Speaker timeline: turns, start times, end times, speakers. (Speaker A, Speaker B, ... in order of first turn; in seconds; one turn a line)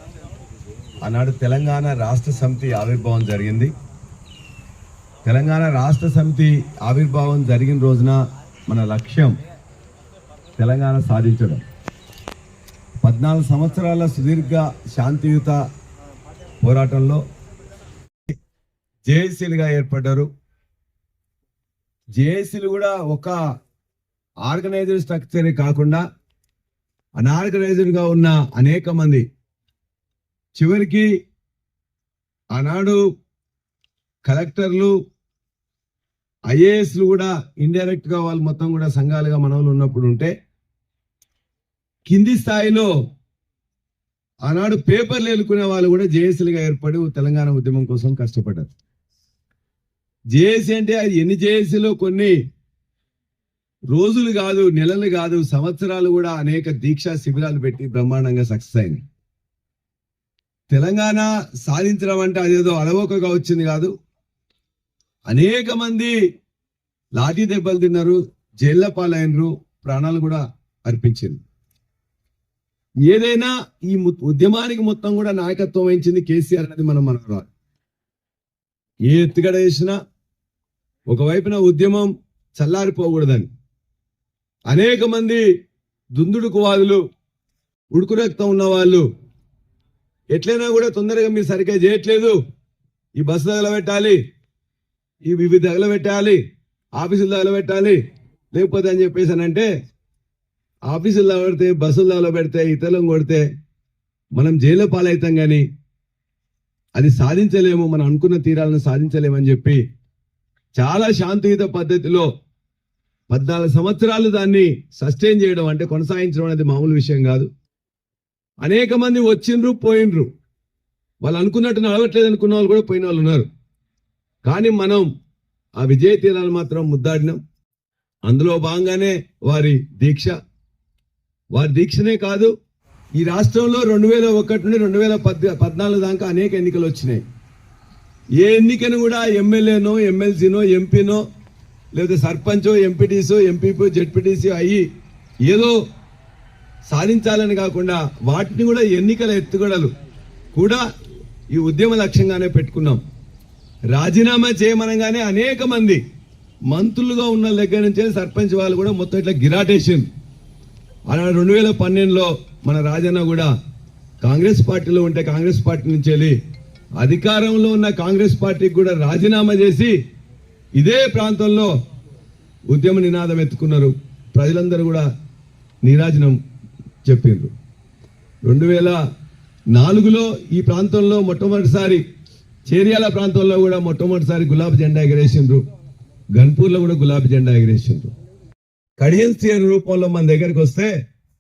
Speaker A: 1.0-3.7
Speaker A: 5.2-9.3
Speaker A: 10.6-11.6
Speaker A: 13.0-15.6
Speaker A: 16.6-17.2
Speaker A: 19.1-20.3
Speaker A: 22.1-23.4
Speaker A: 24.4-26.0
Speaker A: 27.2-29.2
Speaker A: 30.6-31.1
Speaker A: 32.5-33.0
Speaker A: 34.2-34.9
Speaker A: 36.5-40.3
Speaker A: 42.1-42.9
Speaker A: 44.5-48.7
Speaker A: 50.3-52.4
Speaker A: 53.9-59.0
Speaker A: 60.7-63.9
Speaker A: 65.3-66.1
Speaker A: 67.2-71.4
Speaker A: 73.1-77.5
Speaker A: 79.1-80.0
Speaker A: 81.1-83.5
Speaker A: 84.7-85.4
Speaker A: 86.2-87.0
Speaker A: 87.9-89.0
Speaker A: 90.3-92.4
Speaker A: 93.2-94.2
Speaker A: 95.3-96.4
Speaker A: 97.0-98.0
Speaker A: 98.5-99.7
Speaker A: 100.9-103.4
Speaker A: 104.3-105.6
Speaker A: 107.0-109.8
Speaker A: 110.8-112.3
Speaker A: 113.3-117.5
Speaker A: 118.6-120.3
Speaker A: 121.2-123.5
Speaker A: 124.4-125.0
Speaker A: 125.8-127.4
Speaker A: 128.3-130.3
Speaker A: 131.5-132.5
Speaker A: 133.2-137.2
Speaker A: 138.4-141.2
Speaker A: 141.9-144.8
Speaker A: 145.5-145.8
Speaker A: 146.9-149.9
Speaker A: 150.5-150.8
Speaker A: 151.5-153.0
Speaker A: 153.9-156.0
Speaker A: 156.7-160.1
Speaker A: 161.1-163.5
Speaker A: 164.2-166.3
Speaker A: 167.0-169.9
Speaker A: 170.8-171.7
Speaker A: 172.7-175.1
Speaker A: 175.8-176.4
Speaker A: 177.0-177.5
Speaker A: 178.4-179.0
Speaker A: 179.7-182.0
Speaker A: 182.7-185.6
Speaker A: 186.3-188.1
Speaker A: 189.0-190.9